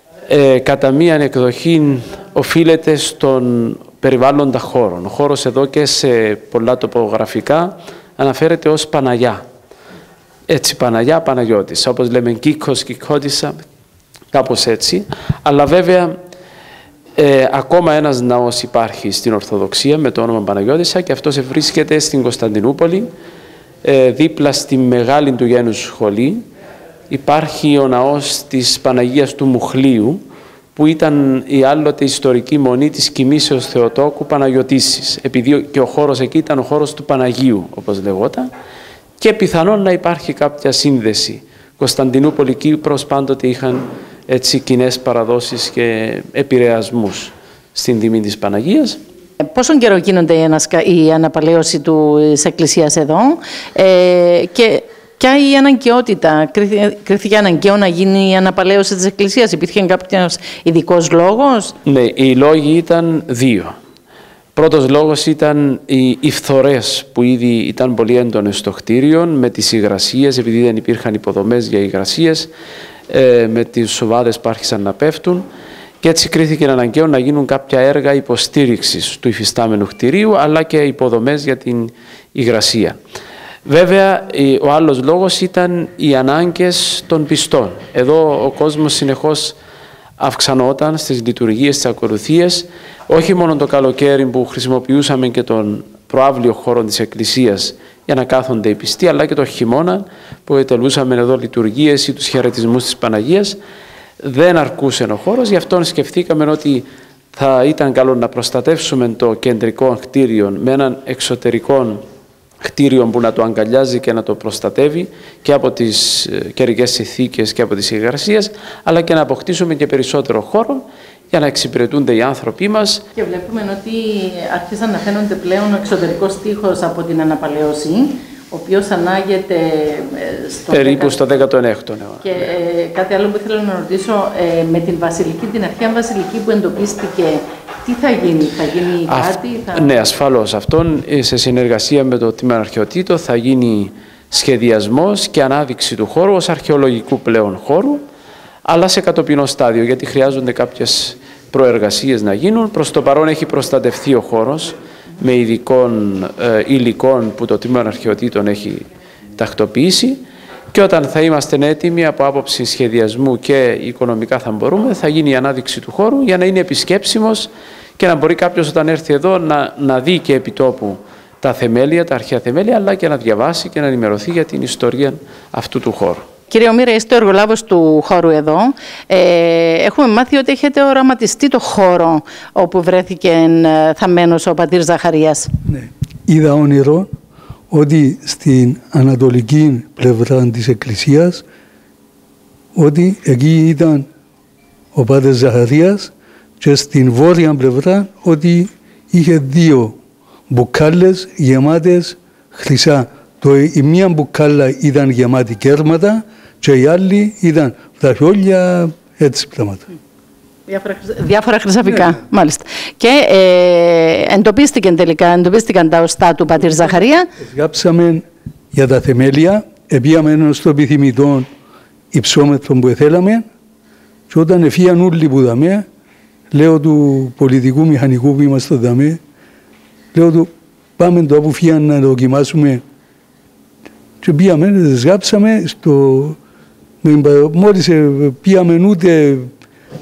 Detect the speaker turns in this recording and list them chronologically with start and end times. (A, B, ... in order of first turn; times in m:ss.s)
0:00.3-0:09.4 A
0:10.5-0:13.6 A
0:14.3-0:16.1 A
0:17.2-0:23.1 A
0:23.8-0:26.5 A
0:27.1-0:30.2 A
0:30.8-0:38.5 A
0:39.2-0:49.0 A
0:49.4-1:01.7 B
1:01.8-1:03.8 A
1:04.5-1:12.5 A
1:13.1-1:15.5 A
1:16.0-1:23.0 A
1:23.6-1:29.6 A
1:30.2-1:43.6 A
1:44.2-1:52.0 A
1:52.6-2:03.0 A
2:03.1-2:11.2 B
2:10.7-2:12.5 A
2:12.2-2:20.0 B
2:19.1-2:28.0 A
2:28.6-2:38.8 A
2:39.4-2:56.2 A
2:56.5-3:05.5 B
3:05.7-3:07.1 C
3:07.7-3:11.4 C
3:12.7-3:14.0 C
3:14.9-3:20.0 C
3:20.5-3:29.8 C
3:30.7-3:37.3 B
3:31.8-3:32.2 C
3:36.7-3:41.5 C
3:42.1-3:43.4 C
3:44.3-3:45.8 C
3:46.5-3:49.2 C
3:50.1-3:52.8 C
3:54.2-3:56.4 C
3:57.0-3:59.5 C